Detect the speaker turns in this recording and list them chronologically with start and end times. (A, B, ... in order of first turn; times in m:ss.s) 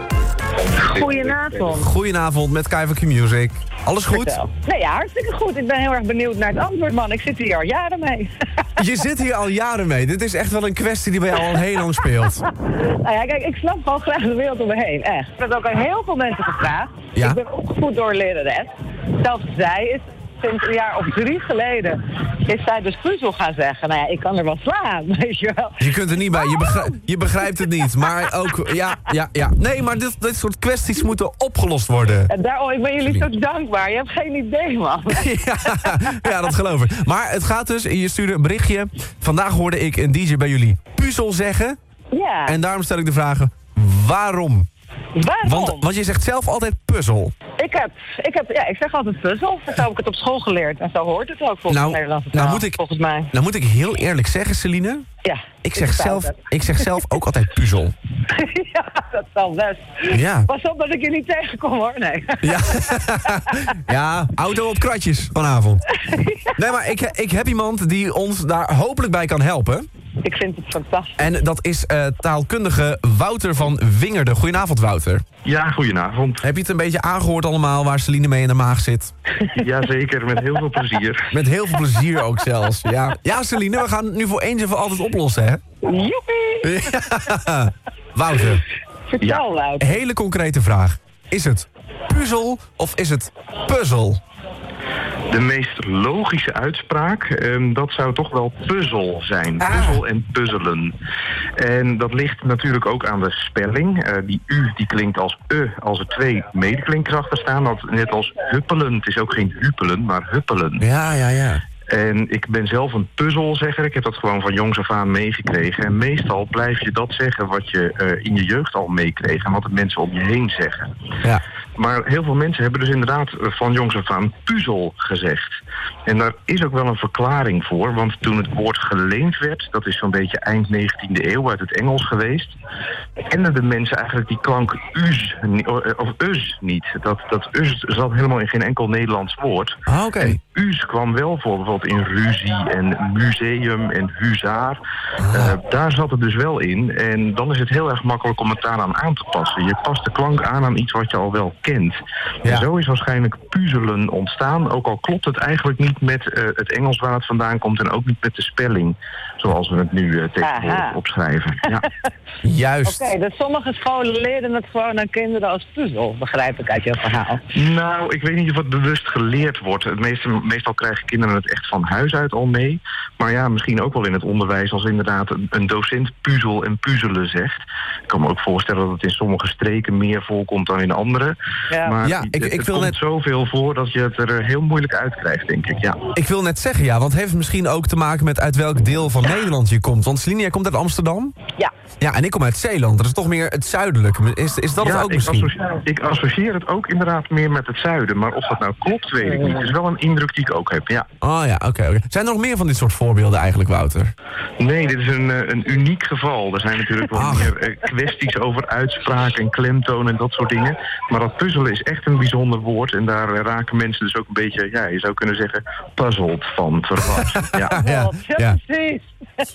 0:00.8-0:01.5 A
0:00.8-0:01.9 B
0:01.7-0:04.4 C
0:04.1-0:08.3 B
0:08.8-0:12.4 C
0:12.6-0:27.0 B
0:17.1-0:17.4 C
0:25.8-0:32.3 C
0:27.6-0:28.5 B
0:32.3-0:36.5 B
0:35.1-0:41.8 C
0:42.1-0:42.6 B
0:42.4-0:44.7 C
0:45.1-0:45.9 B
0:45.4-0:47.3 C
0:47.6-0:53.3 B
0:51.7-0:52.8 C
0:53.3-0:55.1 C
0:55.2-0:57.0 B
0:55.6-0:57.9 C
0:58.3-1:03.7 B
1:00.1-1:00.5 C
1:02.4-1:05.9 C
1:06.0-1:06.6 B
1:06.5-1:09.9 C
1:10.2-1:11.2 B
1:11.2-1:15.2 C
1:15.4-1:16.4 A
1:16.4-1:19.1 C
1:19.5-1:21.3 A
1:21.3-1:25.6 C
1:25.8-1:26.8 B
1:26.6-1:28.6 C
1:29.1-1:30.0 B
1:29.8-1:34.2 C
1:35.3-1:40.9 A
1:39.7-1:40.0 C
1:41.6-1:50.8 A
1:50.8-1:51.6 C
1:51.9-2:00.9 A
2:01.8-2:12.6 A
2:13.3-2:41.8 A
2:19.9-2:20.4 C
2:25.2-2:25.5 C
2:40.4-2:41.0 B
2:42.4-2:43.1 C
2:42.8-2:47.4 B
2:47.5-3:06.0 A
3:01.7-3:02.0 B
3:02.0-3:03.0 C
3:06.1-3:11.3 C
3:12.0-3:15.5 C
3:14.8-3:21.0 A
3:21.2-3:24.1 C
3:24.6-3:37.8 A
3:27.1-3:27.5 C
3:37.4-3:38.6 C
3:37.6-3:39.4 B